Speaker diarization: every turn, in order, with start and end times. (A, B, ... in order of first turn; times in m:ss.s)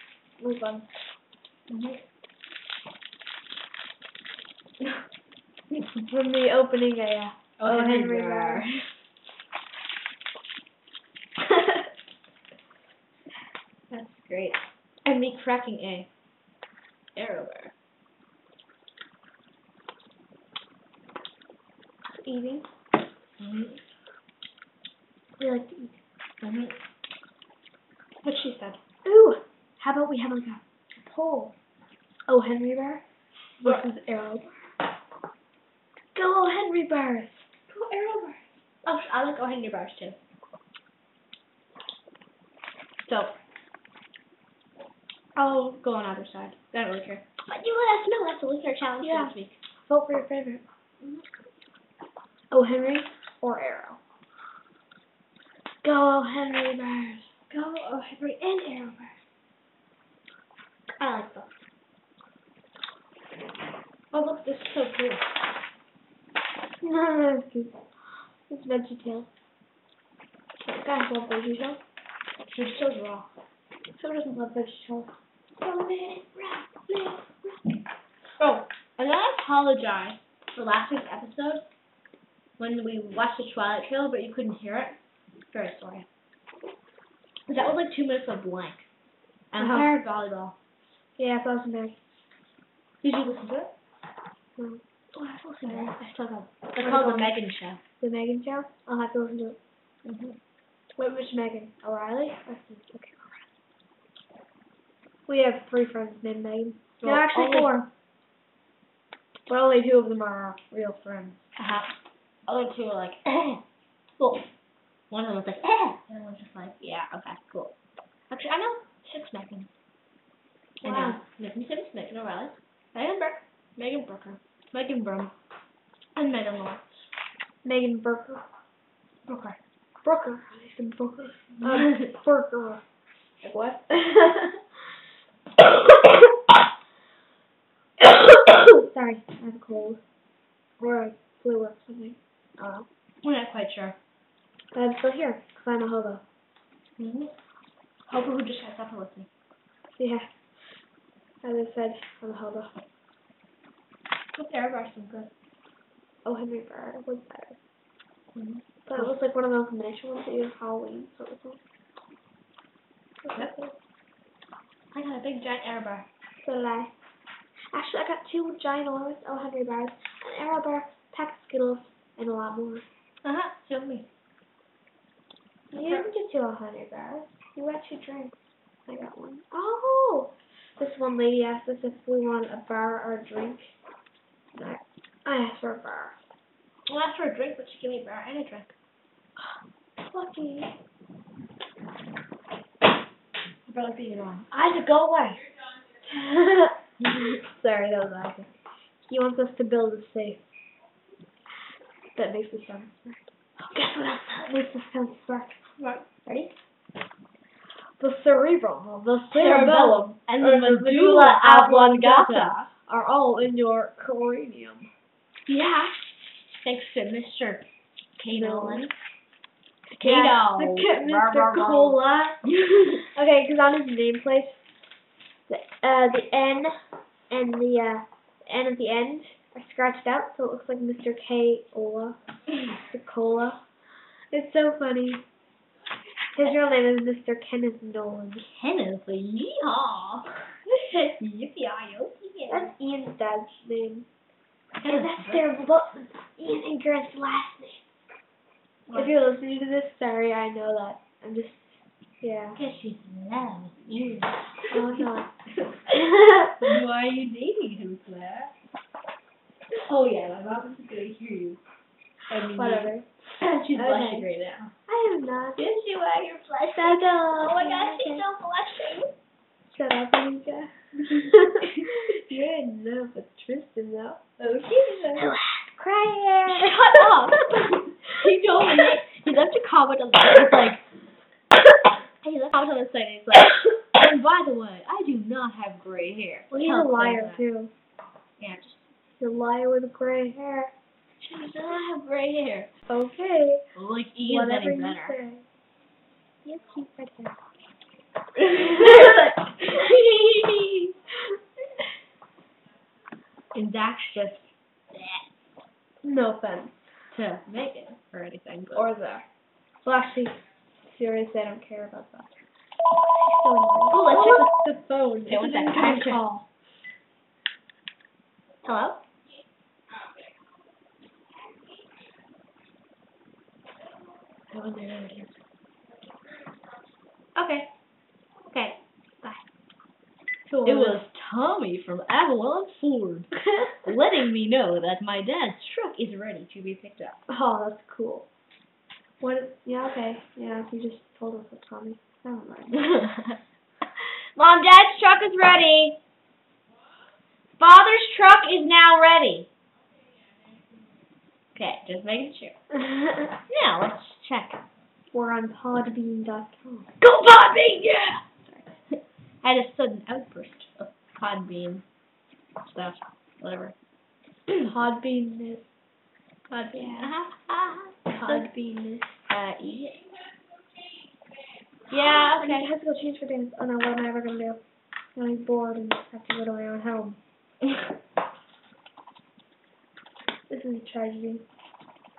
0:00.4-0:00.9 A
0:01.7-0:02.0 B
0:06.0-0:08.6 A
0:07.6-0:08.9 B
0:13.9-0:16.1 B
0:17.2-0:17.7 B
0:22.1-0:22.7 A
0:23.4-0:23.8 B
0:25.4-0:26.0 A
0:26.4-0:26.8 B
0:28.2-0:28.8 B
0:29.0-0:31.5 A
0:32.3-0:33.0 A
0:33.6-0:34.5 A
0:36.2-0:37.5 A
0:37.7-0:40.2 B
0:43.1-0:43.3 B
0:45.4-0:49.6 B
0:49.0-0:49.4 A
0:49.9-0:50.6 A
0:52.5-0:54.0 A
0:55.8-0:57.3 A
0:57.5-0:59.2 B
1:01.0-1:01.5 B
1:04.1-1:05.3 B
1:06.8-1:07.8 A
1:08.5-1:09.3 A
1:10.6-1:11.8 A
1:12.5-1:13.3 B
1:14.0-1:15.1 A
1:15.6-1:17.2 B
1:18.4-1:21.6 B
1:22.6-1:25.0 B
1:25.5-1:26.1 B
1:27.5-1:28.9 B
1:29.5-1:30.6 B
1:29.6-1:29.9 A
1:31.2-1:32.1 A
1:33.0-1:33.7 B
1:34.6-1:34.8 A
1:35.2-1:37.8 B
1:35.4-1:36.0 A
1:36.8-1:37.4 A
1:38.0-1:39.6 A
1:40.0-1:40.4 B
1:41.0-1:43.4 A
1:45.3-1:47.9 A
1:47.0-1:47.8 B
1:49.5-1:51.5 A
1:51.6-1:52.0 B
1:52.5-1:53.6 B
1:54.2-1:54.5 B
1:55.1-1:57.7 B
1:58.3-1:59.7 B
2:00.8-2:05.3 B
2:00.8-2:01.2 A
2:06.2-2:07.0 B
2:07.6-2:08.4 A
2:09.3-2:09.6 B
2:10.0-2:12.8 A
2:11.6-2:12.1 B
2:13.4-2:13.9 B
2:13.9-2:14.6 A
2:18.7-2:20.0 A
2:20.8-2:22.9 A
2:23.2-2:24.0 B
2:24.7-2:26.2 A
2:27.0-2:27.3 B
2:28.1-2:29.3 B
2:30.0-2:30.3 A
2:31.4-2:32.7 A
2:34.4-2:35.3 B
2:36.2-2:37.6 A
2:38.3-2:39.2 B
2:38.9-2:41.6 A
2:43.2-2:43.7 A
2:43.3-2:43.6 B
2:44.9-2:46.1 B
2:46.4-2:46.9 A
2:47.7-2:52.9 A
2:53.2-2:54.1 B
2:55.7-3:03.7 A
3:04.6-3:06.2 A
3:06.9-3:08.7 B
3:10.0-3:10.8 A
3:13.7-3:15.4 B
3:16.0-3:16.8 A
3:17.0-3:18.4 B
3:17.4-3:18.4 A
3:19.0-3:20.4 A
3:22.2-3:25.7 A
3:25.8-3:26.5 B
3:28.0-3:34.9 A
3:29.3-3:32.7 B
3:35.5-3:36.0 B
3:36.5-3:37.6 B
3:38.2-3:38.9 B
3:38.3-3:38.8 A
3:39.9-3:44.6 A
3:40.0-3:42.0 B
3:45.5-3:46.8 A
3:47.3-3:53.6 A
3:54.3-3:55.2 A
3:56.3-3:58.5 A
3:58.4-4:02.7 B
4:02.5-4:04.1 A
4:04.8-4:05.4 B
4:04.9-4:07.8 A
4:08.9-4:09.2 B
4:08.9-4:12.6 A
4:12.6-4:15.1 B
4:14.7-4:15.3 A
4:15.9-4:16.6 A
4:16.5-4:18.5 B
4:19.7-4:21.6 B
4:22.3-4:24.7 B
4:22.4-4:23.1 A
4:23.7-4:24.3 A
4:24.9-4:25.7 A
4:25.6-4:29.1 B
4:26.8-4:28.3 A
4:29.7-4:34.2 A
4:31.5-4:32.0 B
4:34.4-4:35.3 B
4:35.2-4:37.5 A
4:36.5-4:40.8 B
4:42.2-4:47.4 B
4:46.5-4:47.7 A
4:48.4-4:48.9 B
4:49.2-4:50.7 A
4:51.2-4:52.7 B
4:52.9-4:53.7 A
4:53.8-4:55.2 B
4:54.2-4:55.4 A
4:56.4-4:57.4 A
4:58.4-5:01.0 B
5:03.5-5:05.2 B
5:06.0-5:06.8 A
5:07.1-5:08.9 B
5:08.7-5:09.2 A
5:09.8-5:12.4 A
5:13.0-5:16.4 A
5:13.9-5:14.7 B
5:15.3-5:16.3 B
5:18.6-5:19.0 B
5:24.5-5:25.3 A
5:27.4-5:27.7 B
5:28.5-5:29.4 B
5:30.5-5:31.0 A
5:30.6-5:37.2 B
5:37.3-5:38.3 A
5:39.2-5:43.0 A
5:42.9-5:43.2 B
5:44.4-5:46.0 B
5:47.6-5:49.5 B
5:51.6-5:52.6 B
5:52.8-5:53.2 A
5:53.5-5:54.6 B
5:55.1-5:56.9 A
5:57.0-5:58.2 B
5:58.9-6:01.8 B
6:02.6-6:03.8 B
6:04.5-6:05.7 A
6:06.5-6:08.5 B
6:06.7-6:07.1 A
6:08.1-6:09.2 A
6:09.3-6:10.0 B
6:11.9-6:12.7 B
6:11.9-6:14.6 A
6:15.2-6:17.2 A
6:20.5-6:21.4 A